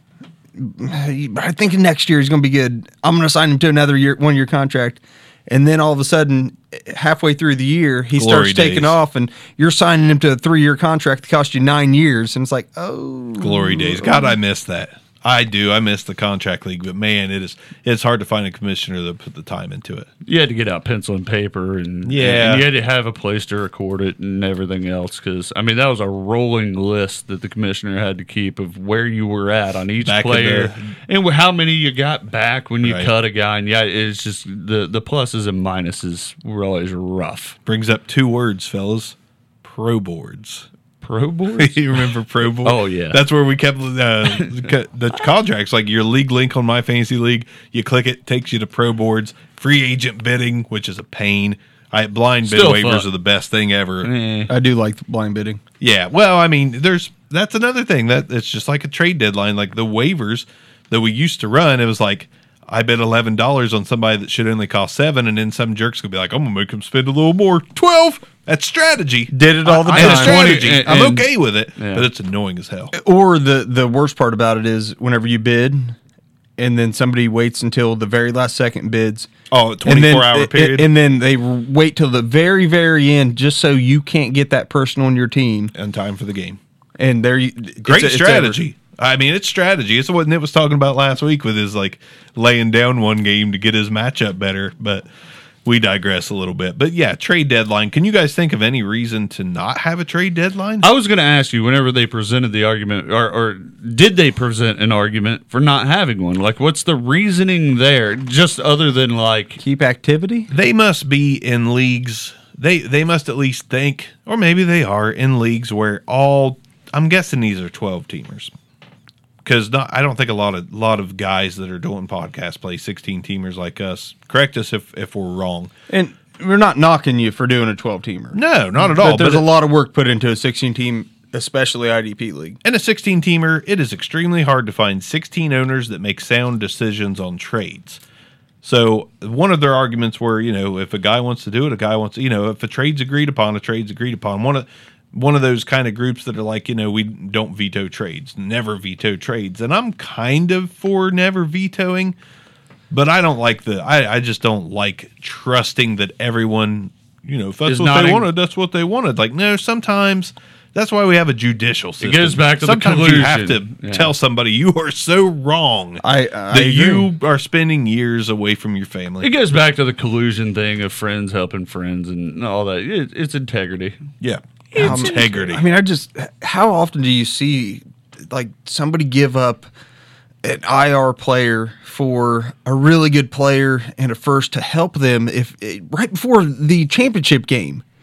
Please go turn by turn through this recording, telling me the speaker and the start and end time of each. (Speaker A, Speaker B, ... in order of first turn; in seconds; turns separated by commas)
Speaker A: 0.6-14.3, Speaker B: 8.1-9.0, Speaker B: 13.4-20.1, Speaker C: 20.2-37.6, Speaker B: 22.1-22.7, Speaker B: 30.0-30.8, Speaker B: 32.8-33.1, Speaker B: 37.6-40.7, Speaker C: 41.0-43.2, Speaker B: 41.6-54.1, Speaker C: 52.4-53.1, Speaker C: 54.0-54.5, Speaker A: 54.5-55.6, Speaker B: 55.8-72.9, Speaker A: 69.3-70.6, Speaker C: 69.7-72.1, Speaker A: 72.9-76.0, Speaker A: 76.6-79.3, Speaker B: 79.5-80.9, Speaker A: 79.8-85.7, Speaker B: 85.7-86.6, Speaker A: 87.0-88.6, Speaker B: 87.8-95.1, Speaker B: 95.6-100.9, Speaker C: 100.8-109.6, Speaker A: 109.6-110.5, Speaker B: 110.5-118.5, Speaker B: 119.4-125.7, Speaker A: 125.9-132.6, Speaker B: 128.3-129.5, Speaker B: 132.6-138.0, Speaker B: 138.6-152.2, Speaker B: 152.9-169.3, Speaker C: 157.7-158.3, Speaker C: 162.0-164.1, Speaker A: 166.0-167.1, Speaker C: 169.2-174.0, Speaker B: 174.2-175.6, Speaker C: 174.7-175.4, Speaker A: 174.8-179.7, Speaker A: 180.4-187.8